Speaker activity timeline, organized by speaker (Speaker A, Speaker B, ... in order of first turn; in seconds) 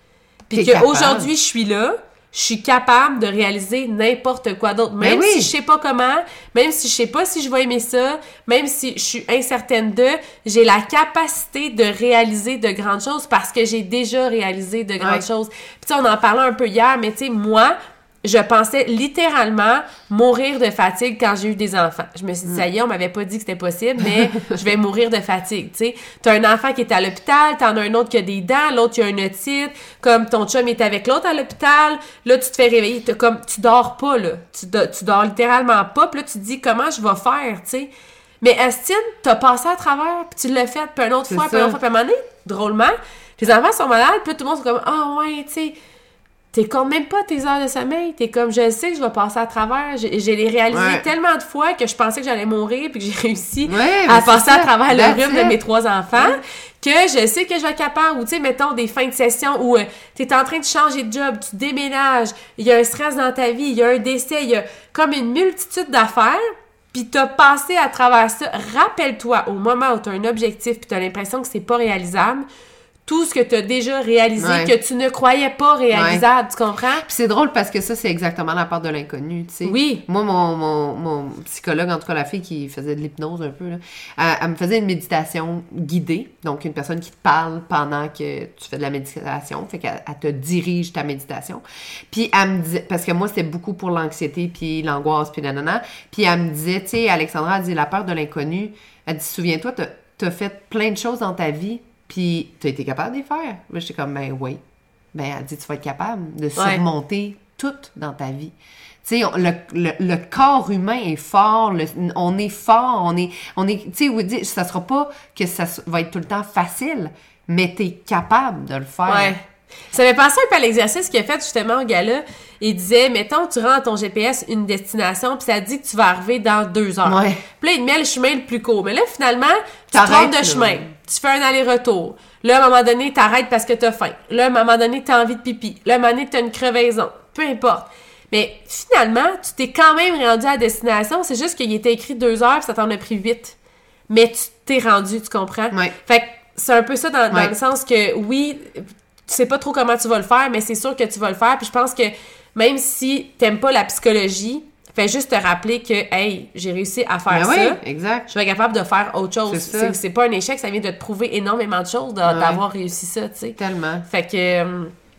Speaker A: 0.5-37.9, 38.4-45.8, 46.5-72.5, 73.1-77.1, 79.7-80.0, 106.6-106.8, 119.0-119.4, 119.9-143.6, 144.1-164.9
Speaker B: 0.5-1.3, 5.0-5.5, 41.3-41.8, 50.7-51.0, 53.7-55.6, 74.4-74.7, 75.9-76.2, 77.1-104.6, 105.1-108.5, 109.0-119.3, 127.0-127.4, 129.9-130.9, 157.3-158.3, 159.5-160.0, 162.2-162.6, 163.6-164.1